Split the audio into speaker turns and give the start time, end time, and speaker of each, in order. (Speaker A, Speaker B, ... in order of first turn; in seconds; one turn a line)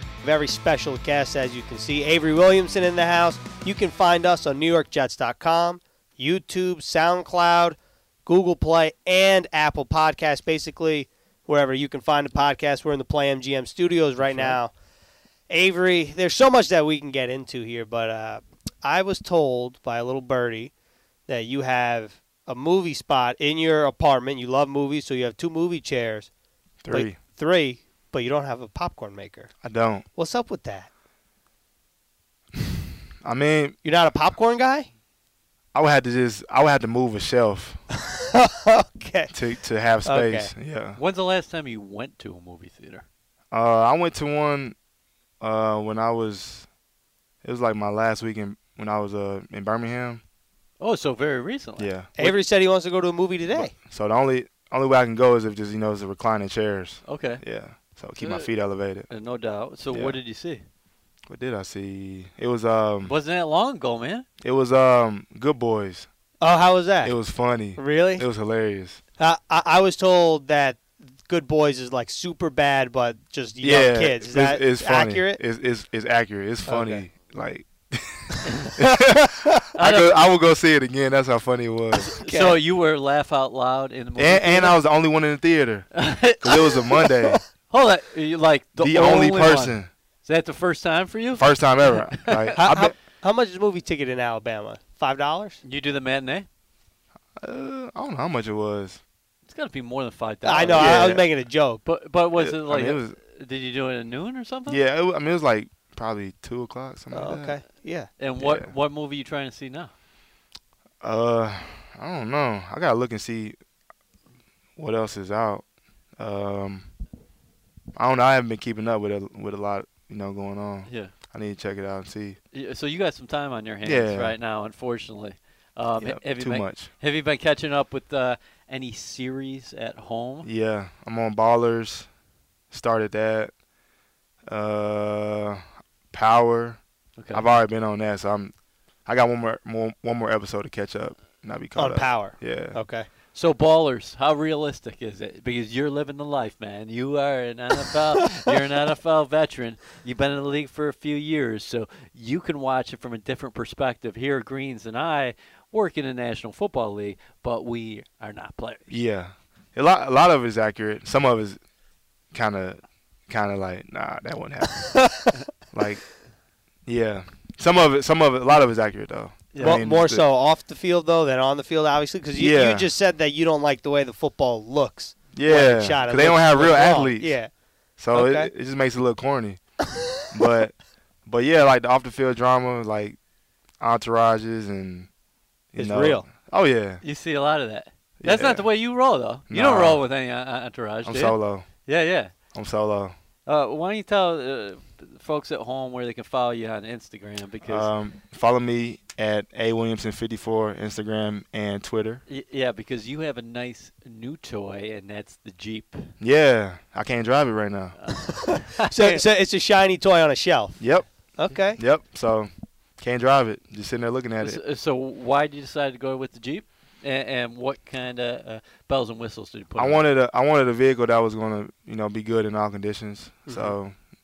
Speaker A: 0.2-14.7
Speaker A: 15.5-20.7
Speaker A: 21.3-26.3
Speaker B: 26.8-27.2
Speaker A: 26.9-29.5
Speaker B: 29.6-30.1
Speaker A: 30.2-30.9
Speaker B: 32.6-33.8
Speaker A: 33.8-34.9
Speaker B: 35.7-37.8
Speaker A: 38.0-39.3
Speaker B: 39.3-41.0
Speaker A: 40.0-40.5
Speaker C: 41.0-43.1
Speaker B: 43.5-44.8
Speaker B: 45.4-46.7
Speaker B: 47.4-50.2
Speaker C: 50.8-52.4
Speaker B: 51.8-52.1
Speaker A: 52.2-53.7
Speaker B: 53.5-59.1
Speaker C: 57.1-57.4
Speaker C: 58.2-58.5
Speaker C: 59.1-60.6
Speaker B: 59.9-60.2
Speaker B: 61.3-63.1
Speaker C: 63.1-64.3
Speaker B: 64.4-66.1
Speaker A: 66.4-67.2
Speaker B: 67.0-69.0
Speaker A: 67.8-68.2
Speaker A: 69.2-75.4
Speaker B: 73.6-82.1
Speaker A: 76.7-77.0
Speaker A: 78.8-79.6
Speaker C: 79.8-80.3
Speaker A: 82.1-82.6
Speaker C: 82.2-84.8
Speaker B: 84.2-87.4
Speaker C: 86.0-91.5
Speaker B: 88.8-89.9
Speaker B: 91.3-93.0
Speaker C: 92.1-92.6
Speaker A: 92.6-95.6
Speaker C: 95.6-96.5
Speaker B: 97.4-99.0
Speaker C: 99.5-101.2
Speaker A: 100.4-101.8
Speaker B: 100.8-101.2
Speaker C: 101.8-104.8
Speaker B: 102.4-103.2
Speaker B: 104.7-107.6
Speaker A: 107.1-108.1
Speaker C: 108.2-109.9
Speaker B: 108.4-108.8
Speaker B: 111.0-113.6
Speaker B: 114.8-115.6
Speaker B: 116.2-116.9
Speaker B: 118.0-122.4
Speaker C: 120.9-121.1
Speaker C: 122.5-130.5
Speaker B: 123.8-124.3
Speaker B: 126.0-126.9
Speaker B: 130.4-132.1
Speaker B: 132.7-133.5
Speaker B: 134.5-136.8
Speaker C: 137.2-137.4
Speaker B: 137.3-138.5
Speaker B: 139.1-142.8
Speaker A: 141.8-143.1
Speaker C: 143.3-158.9
Speaker B: 158.9-161.6
Speaker B: 162.3-165.0
Speaker A: 164.9-165.3
Speaker B: 165.7-166.1
Speaker B: 166.9-170.2
Speaker C: 169.5-169.8
Speaker A: 169.6-177.5
Speaker B: 172.4-172.9
Speaker B: 175.3-177.4
Speaker B: 178.0-179.6
Speaker A: 178.1-178.5
Speaker B: 180.3-183.2
Speaker B: 183.8-185.1
Speaker B: 185.7-187.0
Speaker A: 185.8-186.3
Speaker C: 187.0-192.3
Speaker B: 188.2-188.7
Speaker B: 189.5-190.0
Speaker B: 191.0-191.7
Speaker B: 192.5-193.1
Speaker C: 193.5-197.9
Speaker B: 197.7-202.2
Speaker C: 202.3-206.1
Speaker B: 206.2-208.0
Speaker C: 208.0-209.2
Speaker A: 208.3-211.8
Speaker B: 210.8-214.6
Speaker C: 214.4-220.0
Speaker B: 219.8-223.9
Speaker A: 223.5-223.8